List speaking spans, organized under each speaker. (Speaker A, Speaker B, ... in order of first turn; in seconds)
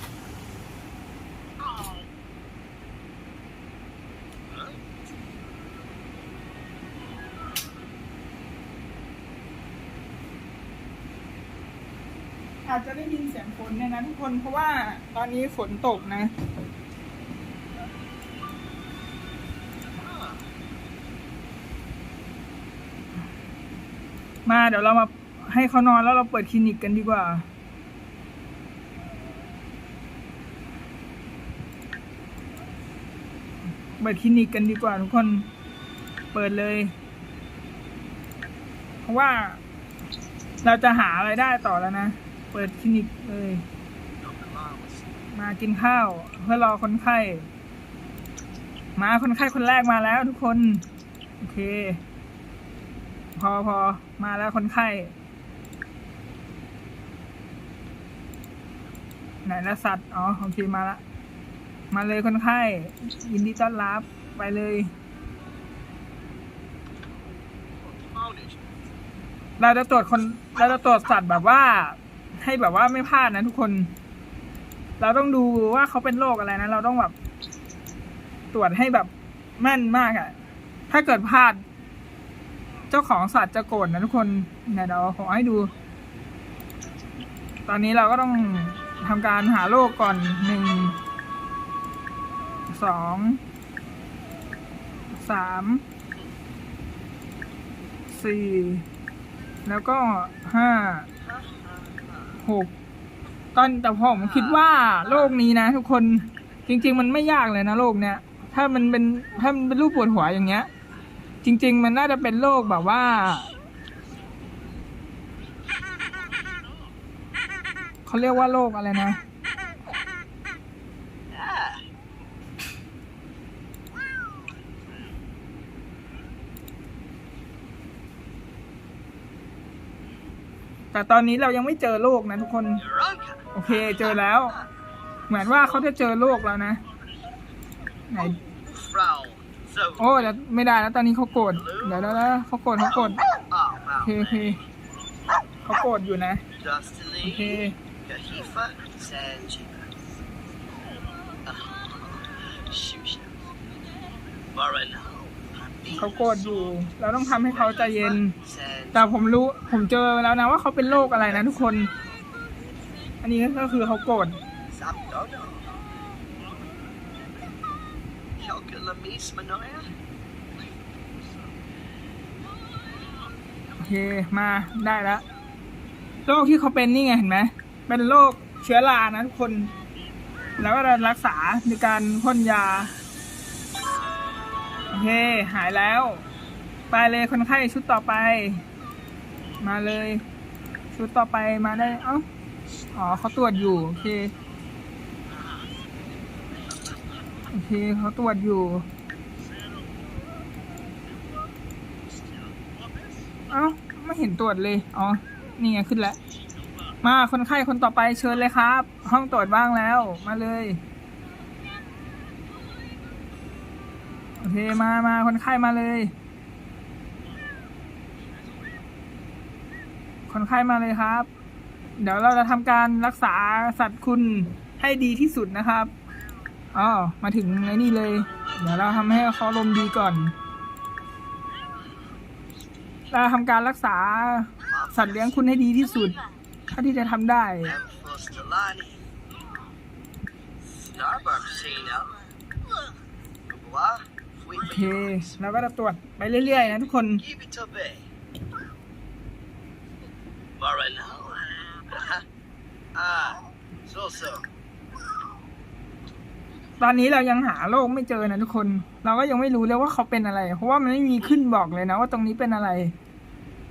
Speaker A: 12.7-16.3, 24.5-27.5, 34.0-35.5, 36.3-36.9, 39.0-39.6, 40.6-43.6, 45.3-47.5, 49.0-50.9, 51.4-52.0, 53.4-55.1, 59.4-61.0, 61.9-64.9, 69.6-73.9, 75.0-77.2, 78.5-80.3, 80.9-81.6, 82.9-85.7, 87.7-91.0, 92.7-93.4, 95.1-95.8, 98.1-98.9, 99.7-101.1, 102.4-102.7, 103.5-110.7, 111.4-113.6, 118.1-119.2, 130.9-132.8, 133.5-134.6, 135.3-136.8, 138.1-138.4, 140.0-143.2, 144.0-144.6, 145.6-146.4, 147.2-147.8, 155.9-158.4, 158.9-161.9, 163.2-164.4, 173.8-175.2, 176.3-179.7, 180.6-182.9, 184.9-186.2, 186.9-188.6, 189.6-190.2, 190.9-192.3, 192.9-194.3, 197.5-198.9, 203.5-206.2, 207.0-210.8, 214.4-216.1, 220.3-221.3, 222.0-225.9, 226.7-230.3, 233.1-237.8, 244.6-247.2, 256.8-262.9
Speaker B: 20.1-20.3, 44.2-45.1, 67.8-68.6, 101.2-102.3, 104.3-104.6, 121.3-121.8, 132.8-134.1, 138.7-140.2, 141.6-142.1, 143.5-144.6, 146.6-149.9, 151.5-153.4, 154.5-156.1, 158.4-159.0, 164.7-165.7, 168.4-169.9, 234.6-235.3, 237.7-239.1, 240.8-242.2, 243.5-244.8, 247.2-248.1, 250.6-252.2, 252.9-254.5